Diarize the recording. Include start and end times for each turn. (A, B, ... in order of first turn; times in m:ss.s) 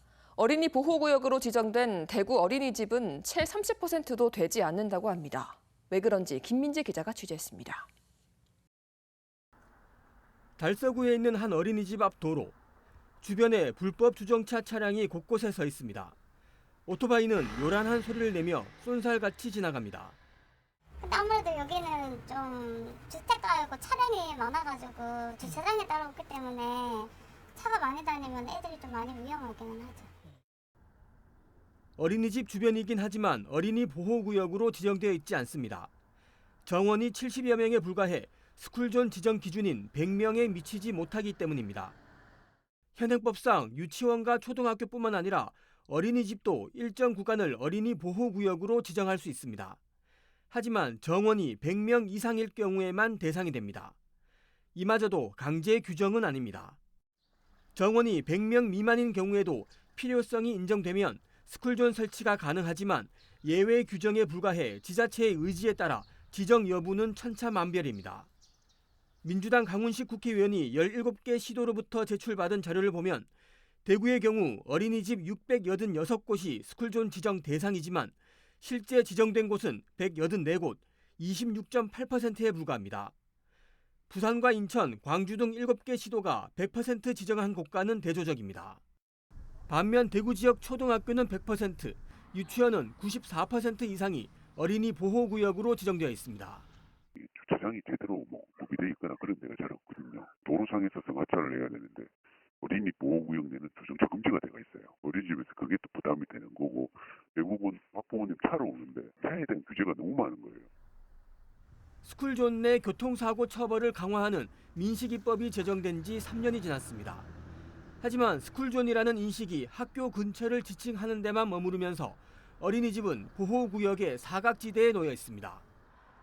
0:00.4-0:07.9 A
0:10.6-0:12.5 B
0:13.2-0:16.1 B
0:16.8-0:20.2 B
0:21.0-0:30.1 C
0:32.0-0:35.9 B
0:36.6-0:42.0 B
0:42.9-0:49.8 B
0:50.5-0:53.9 B
0:54.7-0:56.8 B
0:57.7-1:08.3 B
1:09.2-1:13.3 B
1:13.8-1:23.1 B
1:24.1-1:28.8 B
1:29.7-1:36.6 B
1:37.2-1:42.1 D
1:42.6-1:50.7 D
1:52.0-1:57.3 B
1:58.0-2:05.6 B